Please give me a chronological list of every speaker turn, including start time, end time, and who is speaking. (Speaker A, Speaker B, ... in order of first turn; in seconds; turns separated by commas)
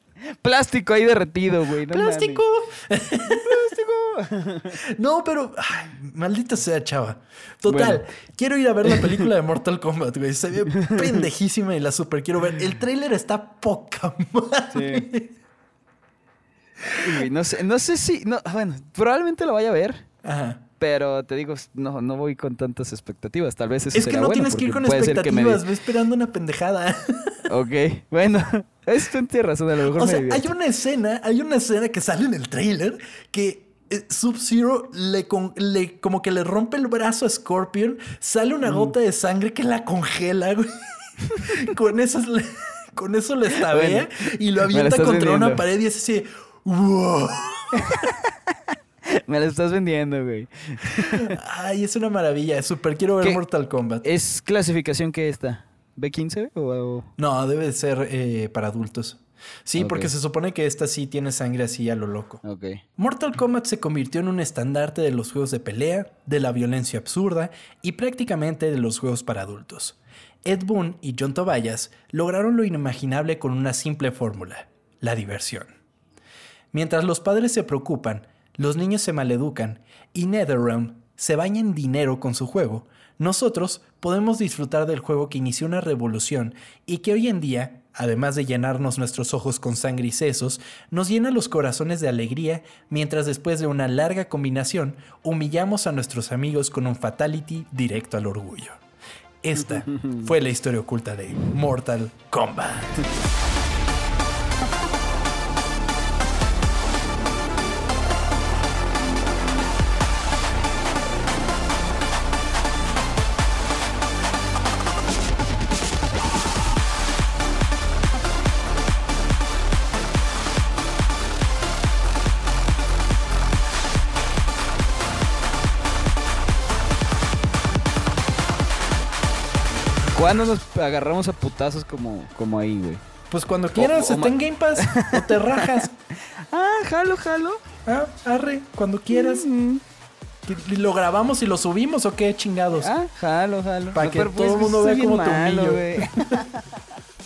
Speaker A: 0.3-2.4, Speaker B: 1.9-3.8, Speaker A: 3.2-4.8, Speaker B: 4.7-15.4, Speaker A: 7.7-8.0, Speaker A: 8.8-9.3, Speaker A: 10.8-11.2, Speaker A: 14.7-15.1, Speaker A: 16.9-20.1, Speaker B: 16.9-17.2, Speaker B: 20.2-20.6, Speaker A: 20.8-25.6, Speaker B: 23.9-27.5, Speaker A: 27.5-30.5, Speaker B: 29.9-40.7, Speaker A: 38.7-38.9, Speaker B: 41.4-48.1, Speaker A: 43.6-44.1, Speaker A: 44.7-45.6, Speaker A: 47.7-51.4, Speaker B: 51.0-54.0, Speaker A: 54.0-57.1, Speaker B: 57.2-62.4, Speaker A: 59.8-60.1, Speaker A: 62.4-62.8, Speaker B: 63.0-75.7, Speaker B: 76.7-98.8, Speaker B: 99.4-103.1, Speaker A: 99.7-100.3, Speaker A: 130.1-133.0, Speaker B: 133.3-135.9, Speaker A: 133.8-137.6, Speaker B: 137.9-139.5, Speaker A: 139.1-139.8, Speaker B: 140.4-142.9, Speaker A: 142.8-146.7, Speaker B: 143.9-146.5